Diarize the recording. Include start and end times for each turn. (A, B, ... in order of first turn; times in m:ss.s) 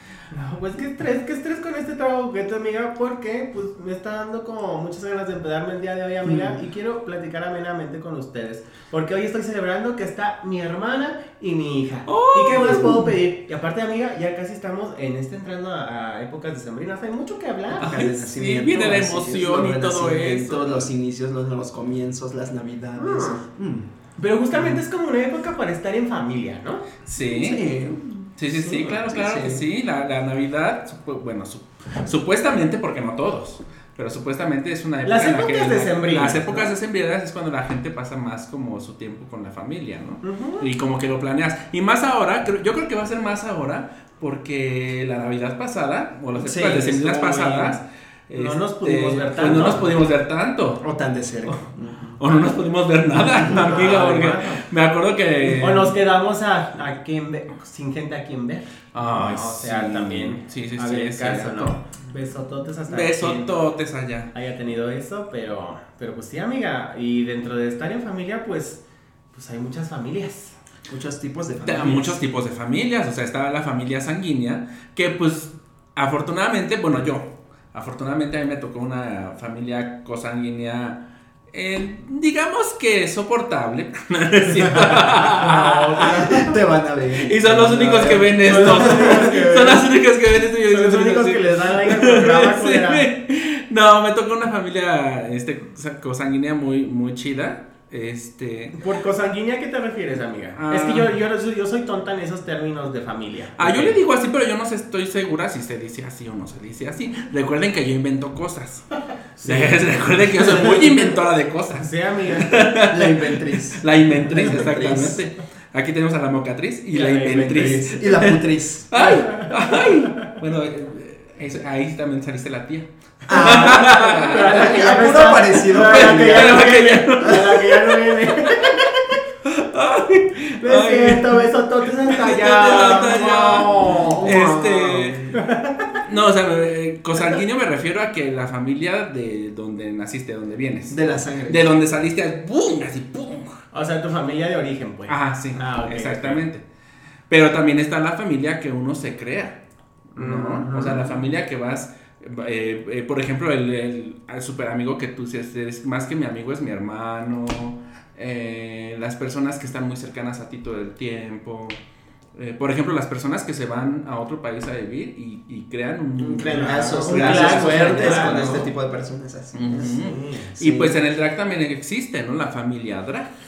0:00.3-0:18.0 A
0:06.2-0:06.6 B
0:12.1-0:13.0 C
0:12.5-0:13.1 B
0:17.8-0:23.9 B
0:17.8-0:20.9 C
0:23.0-0:23.4 A
0:24.2-0:26.9 A
0:27.1-0:27.6 C
0:27.3-0:29.6 B
0:28.4-0:50.8 C
0:35.0-0:36.7 A
0:36.2-0:36.6 B
0:40.2-0:40.7 A
0:46.4-0:47.8 B
0:48.3-0:50.0 A
0:49.4-0:49.8 B
0:50.8-0:52.2 B
0:52.2-0:56.0 C
0:53.5-0:54.6 A
0:55.4-1:03.5 A
0:58.9-1:01.8 C
1:02.9-1:04.3 C
1:04.3-1:08.8 A
1:09.3-1:10.6 A
1:10.9-1:12.2 B
1:11.6-1:21.0 C
1:21.5-1:26.3 C
1:24.9-1:26.5 A
1:25.9-1:29.3 B
1:27.2-1:38.8 C
1:28.1-1:29.9 A
1:30.7-1:33.1 A
1:38.7-1:44.0 A
1:40.6-1:41.1 C
1:43.6-1:48.9 C
1:49.4-1:51.2 A
1:49.4-2:04.7 C
1:51.8-1:52.7 A
1:52.8-1:55.2 B
1:56.9-1:57.8 A
1:57.3-1:58.9 B
1:59.0-1:59.5 A
2:03.3-2:06.7 B
2:03.4-2:09.2 A
2:05.6-2:08.0 C
2:09.4-2:11.5 C
2:10.6-2:14.3 A
2:12.0-2:15.3 C
2:13.9-2:15.4 B
2:15.4-2:16.0 A
2:16.0-2:23.6 C
2:20.9-2:21.7 B
2:23.7-2:26.4 A
2:25.1-2:26.6 C
2:27.3-2:29.6 C
2:30.2-2:41.8 C
2:30.2-2:31.1 A
2:42.4-2:48.7 C
2:46.2-2:50.0 B
2:46.5-2:48.7 A
2:49.5-2:53.3 C
2:49.9-2:50.6 A
2:50.6-2:51.0 B